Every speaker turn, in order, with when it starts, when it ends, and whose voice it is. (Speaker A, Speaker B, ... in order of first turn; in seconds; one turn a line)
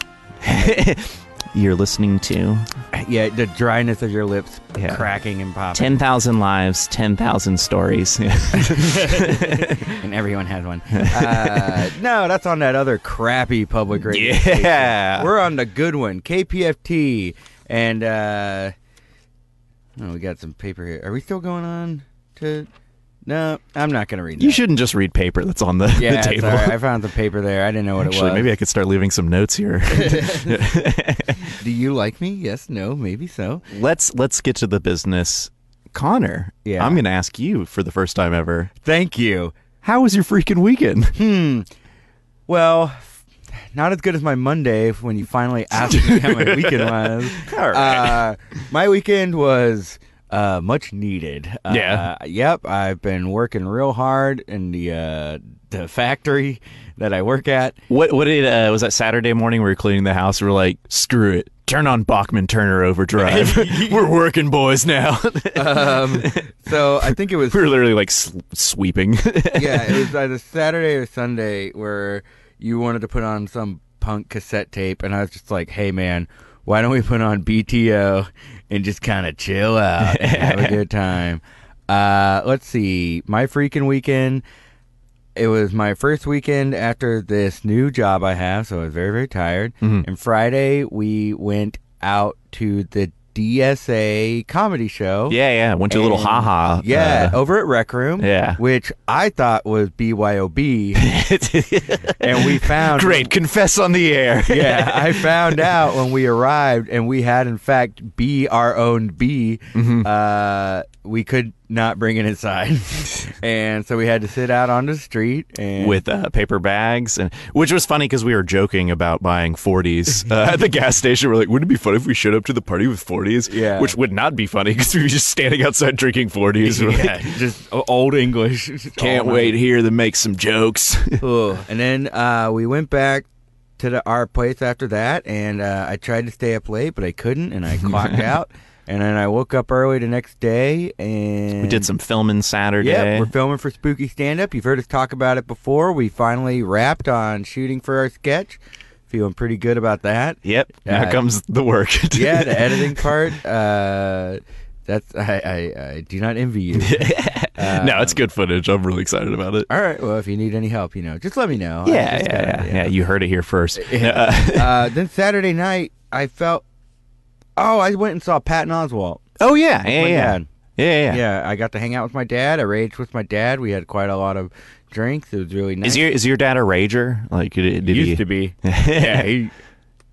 Speaker A: 0.4-2.7
Speaker B: 2.9-5.9
Speaker A: 4.8-5.0
Speaker A: 5.7-9.9
Speaker B: 8.6-18.7
Speaker A: 10.9-11.8
Speaker A: 14.0-15.3
Speaker B: 20.0-22.7
Speaker B: 23.2-24.6
Speaker A: 24.4-26.8
Speaker B: 25.9-28.4
Speaker A: 28.0-31.5
Speaker B: 30.0-30.5
Speaker B: 31.5-33.6
Speaker A: 33.7-38.7
Speaker B: 36.6-37.0
Speaker B: 38.8-39.5
Speaker A: 39.8-41.2
Speaker B: 41.1-41.7
Speaker B: 42.5-43.1
Speaker B: 43.7-57.8
Speaker A: 45.8-48.2
Speaker A: 51.7-52.1
Speaker A: 57.9-66.5
Speaker B: 63.2-64.1
Speaker B: 65.5-67.7
Speaker A: 67.0-70.1
Speaker B: 69.5-84.4
Speaker A: 80.0-80.8
Speaker B: 85.3-95.4
Speaker A: 95.3-97.4
Speaker B: 95.9-101.1
Speaker A: 98.2-98.6
Speaker A: 101.0-105.8
Speaker B: 102.0-103.3
Speaker B: 104.5-116.0
Speaker A: 109.7-110.1
Speaker A: 115.8-127.3
Speaker B: 123.5-123.9
Speaker B: 126.6-129.5
Speaker A: 129.0-131.2
Speaker B: 131.2-133.3
Speaker B: 133.8-141.9
Speaker A: 137.8-138.2
Speaker A: 141.6-143.3
Speaker B: 142.8-151.2
Speaker A: 150.4-153.1
Speaker B: 152.1-158.2
Speaker A: 156.8-159.7
Speaker B: 159.7-162.9
Speaker A: 161.8-164.9
Speaker B: 163.7-166.6
Speaker B: 167.6-169.2
Speaker A: 169.4-171.2
Speaker B: 169.8-170.5
Speaker B: 171.1-176.0
Speaker A: 175.8-179.3
Speaker B: 177.8-179.5